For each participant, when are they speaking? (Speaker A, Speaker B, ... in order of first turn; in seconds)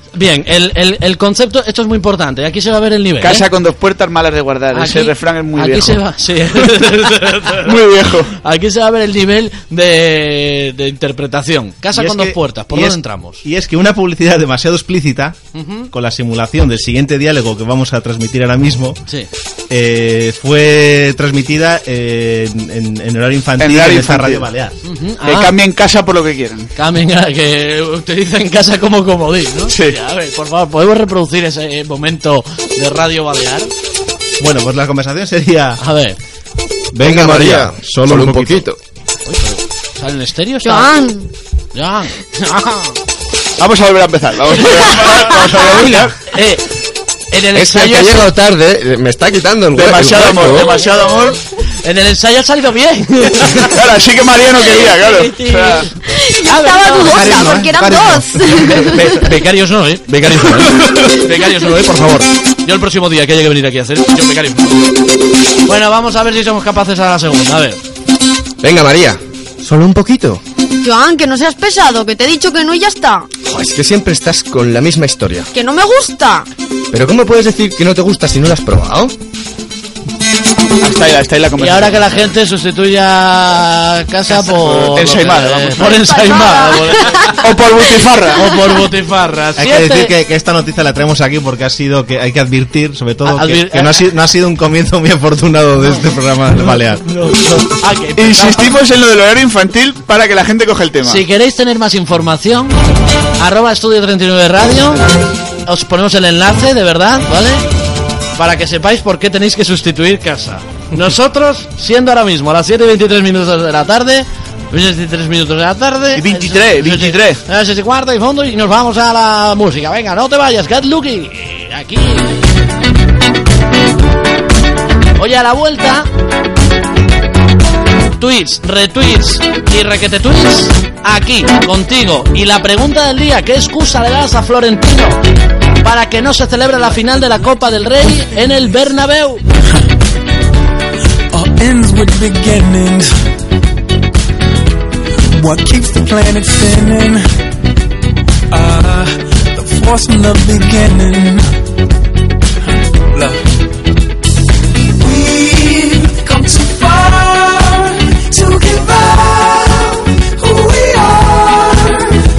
Speaker A: 0.1-3.5, 4.7-13.4, 15.5-15.9, 24.8-25.5, 26.8-33.7, 35.8-36.2, 39.2-40.9, 41.7-43.0, 44.6-46.7, 47.3-48.3, 51.8-53.7, 54.9-57.3, 58.8-64.8, 65.7-67.8, 81.6-87.4, 88.3-90.1, 93.2-94.0, 96.9-98.8, 101.0-102.8, 103.4-105.1, 105.6-107.6, 108.3-122.4, 125.2-126.1, 128.2-135.2, 135.8-139.4
Speaker B: 3.2-6.0, 7.5-8.3, 23.6-24.5, 25.2-26.7, 29.7-30.0, 43.6-46.2, 49.7-51.4, 53.5-55.9, 80.8-82.3, 84.4-86.0, 87.4-88.6, 98.2-101.2, 116.1-117.4
Speaker C: 11.9-15.4, 15.9-19.0, 19.7-24.8, 34.4-35.8, 36.9-38.6, 57.0-58.9, 89.5-97.0
Speaker D: 37.0-38.8, 47.5-50.7, 68.6-70.4, 73.5-75.5, 76.9-79.1
Speaker E: 40.6-41.3, 56.1-59.1, 70.8-73.3, 75.5-76.5, 86.0-87.4
Speaker F: 141.3-143.1, 145.3-147.2, 148.5-151.5, 155.0-162.2